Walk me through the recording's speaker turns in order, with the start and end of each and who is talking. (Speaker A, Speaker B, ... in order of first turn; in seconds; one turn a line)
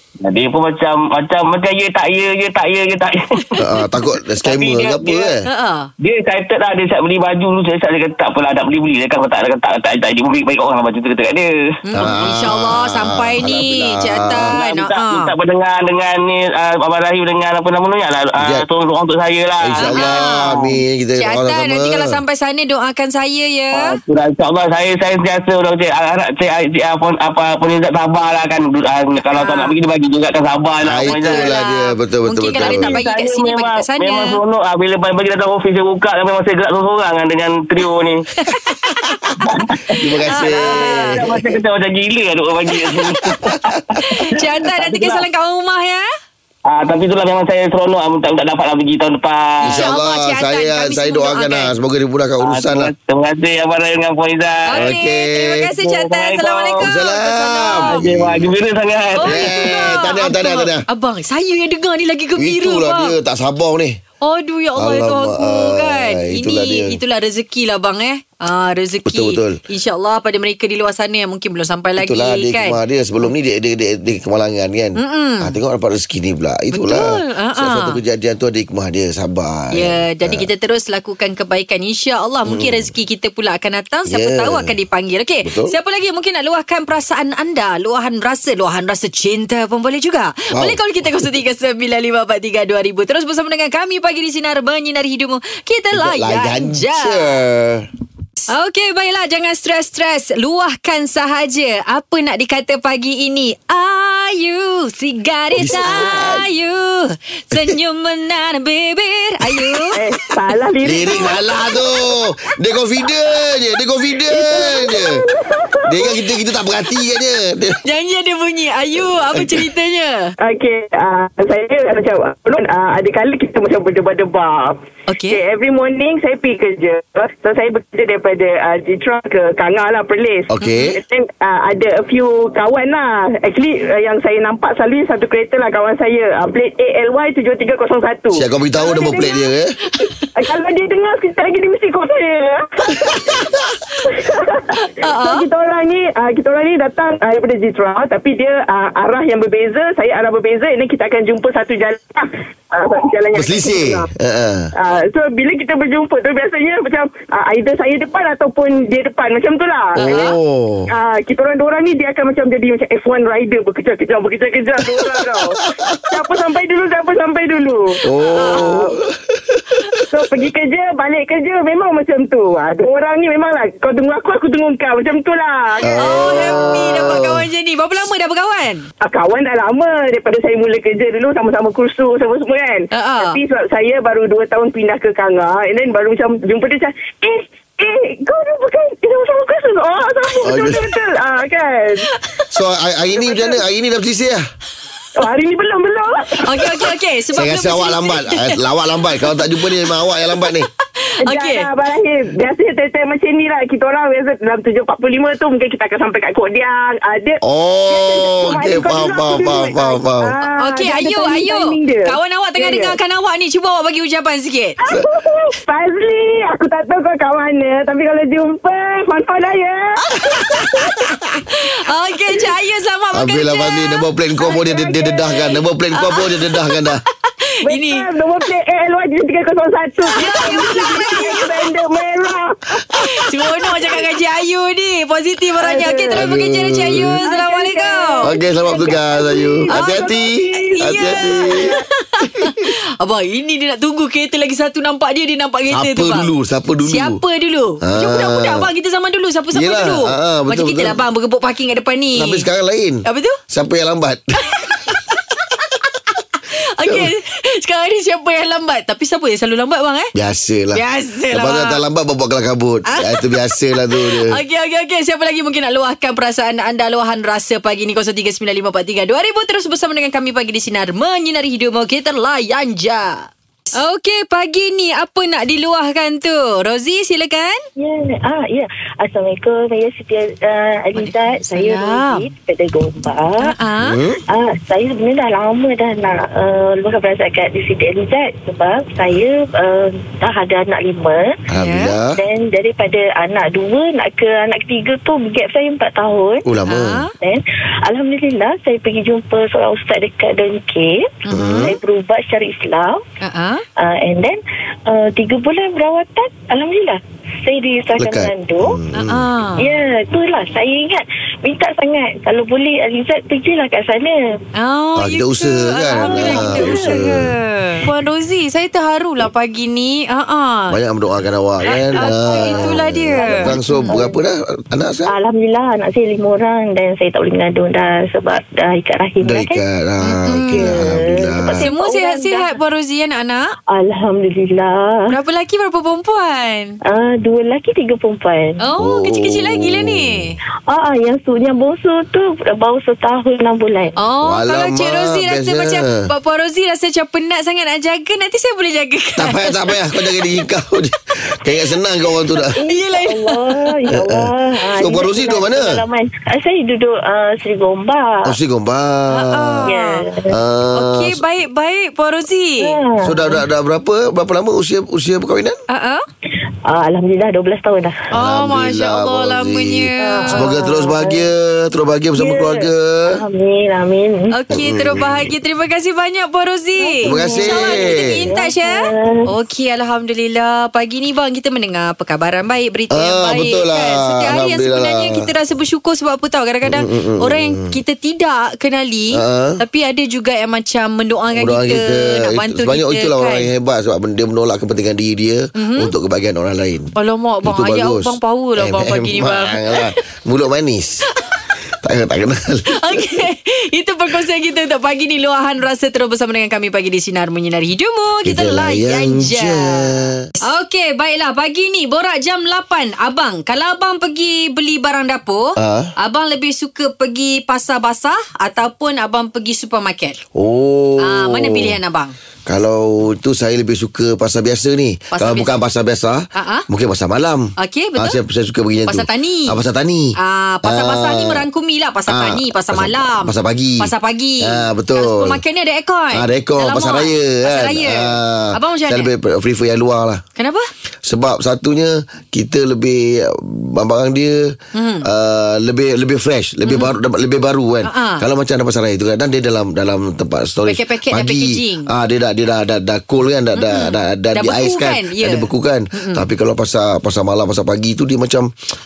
Speaker A: 0.2-3.2
Speaker B: 3.6-5.5
Speaker A: 4.4-5.3
Speaker C: 5.4-5.9
Speaker A: 6.0-11.5
Speaker C: 11.8-15.3
Speaker B: 11.9-14.6
Speaker A: 14.5-20.8
Speaker B: 18.4-18.6
Speaker B: 19.6-22.2
Speaker C: 19.8-20.6
Speaker C: 21.1-23.9
Speaker A: 23.7-31.6
Speaker C: 29.3-29.7
Speaker B: 30.8-33.0
Speaker C: 31.2-34.4
Speaker A: 32.6-38.2
Speaker C: 38.4-39.0
Speaker A: 39.4-45.2
Speaker B: 40.0-41.3
Speaker C: 40.3-41.2
Speaker C: 44.1-46.1
Speaker A: 46.7-49.8
Speaker C: 49.6-51.7
Speaker B: 49.6-52.9
Speaker A: 52.4-54.9
Speaker C: 54.6-58.0
Speaker B: 54.7-55.7
Speaker A: 55.8-56.9
Speaker B: 56.8-58.5
Speaker A: 57.7-60.0
Speaker C: 59.1-63.1
Speaker B: 59.2-60.9
Speaker B: 62.4-64.0
Speaker C: 64.2-72.8
Speaker B: 64.7-67.0
Speaker B: 69.0-69.6
Speaker B: 72.0-80.5
Speaker C: 75.0-75.5
Speaker C: 76.7-78.0
Speaker C: 79.7-97.4
Speaker B: 82.5-82.9
Speaker B: 84.1-84.8
Speaker B: 85.4-85.7
Speaker B: 90.5-91.2
Speaker B: 95.9-97.9
Speaker C: 98.5-109.9
Speaker B: 105.6-106.5
Speaker D: 105.7-106.0
Speaker D: 109.9-111.4
Speaker B: 110.8-115.2
Speaker D: 114.3-116.1
Speaker B: 115.9-117.8
Speaker C: 117.8-120.3
Speaker B: 118.9-119.7
Speaker D: 120.4-139.4
Speaker C: 125.1-125.4
Speaker B: 130.5-130.9
Speaker C: 130.6-130.9
Speaker B: 138.3-139.8
Speaker D: 140.3-143.3
Speaker D: 144.0-154.1
Speaker C: 144.7-145.4
Speaker B: 153.3-154.7
Speaker D: 154.7-160.3
Speaker B: 160.0-160.9
Speaker C: 160.1-160.3
Speaker D: 160.9-168.9
Speaker B: 165.5-165.9
Speaker B: 168.1-170.0
Speaker C: 168.3-168.8
Speaker D: 170.1-176.7
Speaker B: 175.8-177.5
Speaker C: 175.9-178.9
Speaker D: 179.0-192.0
Speaker C: 182.9-183.4
Speaker B: 190.4-190.8
Speaker C: 192.1-192.4
Speaker B: 192.5-194.4
Speaker D: 193.1-193.6
Speaker D: 195.2-196.9
Speaker C: 196.4-198.6
Speaker B: 197.3-200.7
Speaker C: 199.7-201.7
Speaker D: 201.2-213.0
Speaker B: 207.4-210.3
Speaker C: 210.6-214.8
Speaker D: 214.8-220.9
Speaker C: 220.0-224.7
Speaker B: 223.1-227.0
Speaker D: 224.7-225.1
Speaker C: 225.4-226.8
Speaker C: 227.5-228.1
Speaker D: 227.6-232.8
Speaker C: 230.1-231.6
Speaker C: 232.9-238.3
Speaker D: 235.6-236.3
Speaker B: 236.1-237.2
Speaker D: 237.2-241.8
Speaker B: 238.2-242.7
Speaker C: 239.7-246.3
Speaker B: 245.7-247.2
Speaker C: 246.8-252.5
Speaker B: 247.8-248.7
Speaker B: 249.5-251.0
Speaker B: 252.1-254.8
Speaker C: 253.0-253.4
Speaker C: 254.6-255.0
Speaker C: 256.6-260.1
Speaker B: 256.8-257.1
Speaker B: 260.1-264.4
Speaker C: 260.7-261.8
Speaker C: 262.9-277.6
Speaker E: 277.8-283.5
Speaker C: 280.9-282.2
Speaker C: 283.4-284.0
Speaker B: 283.8-284.2
Speaker E: 284.3-291.3
Speaker B: 291.5-292.2
Speaker C: 291.6-291.9
Speaker E: 292.1-296.4
Speaker B: 296.4-297.0
Speaker C: 296.7-297.1
Speaker E: 297.2-303.0
Speaker C: 301.3-301.7
Speaker B: 301.3-301.7
Speaker C: 303.2-303.6
Speaker E: 303.8-308.8
Speaker B: 308.0-309.3
Speaker C: 309.0-309.7
Speaker E: 309.6-314.2
Speaker C: 314.6-320.8
Speaker B: 314.9-317.3
Speaker E: 315.9-317.1
Speaker B: 320.7-325.1
Speaker C: 321.7-323.9
Speaker E: 321.8-324.2
Speaker E: 325.1-329.6
Speaker B: 329.2-331.7
Speaker C: 330.0-330.8
Speaker E: 330.5-332.5
Speaker C: 331.6-333.5
Speaker E: 333.7-335.0
Speaker C: 335.1-336.8
Speaker E: 336.8-338.6
Speaker C: 338.6-340.4
Speaker B: 338.8-340.3
Speaker E: 340.7-344.0
Speaker C: 344.0-350.3
Speaker B: 344.2-346.0
Speaker B: 349.2-352.6
Speaker C: 352.4-353.7
Speaker E: 352.5-358.3
Speaker B: 353.9-355.8
Speaker B: 358.2-359.7
Speaker C: 359.1-360.1
Speaker E: 359.6-360.3
Speaker B: 360.3-361.2
Speaker C: 360.7-362.8
Speaker E: 362.6-363.4
Speaker B: 363.0-365.6
Speaker C: 365.7-366.0
Speaker E: 366.7-368.0
Speaker B: 368.1-373.2
Speaker C: 368.1-370.5
Speaker E: 370.0-371.2
Speaker E: 372.2-374.4
Speaker C: 374.3-393.5
Speaker B: 374.5-375.3
Speaker E: 376.8-379.2
Speaker B: 377.0-378.2
Speaker B: 382.9-385.3
Speaker B: 386.6-387.8
Speaker B: 389.1-389.6
Speaker B: 391.3-401.1
Speaker C: 395.5-395.9
Speaker C: 396.9-399.9
Speaker B: 401.8-403.1
Speaker C: 402.7-420.2
Speaker B: 408.2-410.3
Speaker B: 415.6-415.9
Speaker B: 420.3-421.8
Speaker C: 421.0-422.1
Speaker B: 422.4-431.4
Speaker C: 425.1-425.5
Speaker C: 426.3-426.6
Speaker C: 427.6-428.2
Speaker C: 428.9-429.6
Speaker C: 430.2-439.1
Speaker B: 432.1-435.4
Speaker B: 436.1-440.2
Speaker C: 440.4-440.7
Speaker B: 441.0-458.5
Speaker C: 444.7-445.1
Speaker C: 446.6-446.9
Speaker C: 447.8-448.2
Speaker C: 450.6-451.9
Speaker C: 453.6-456.2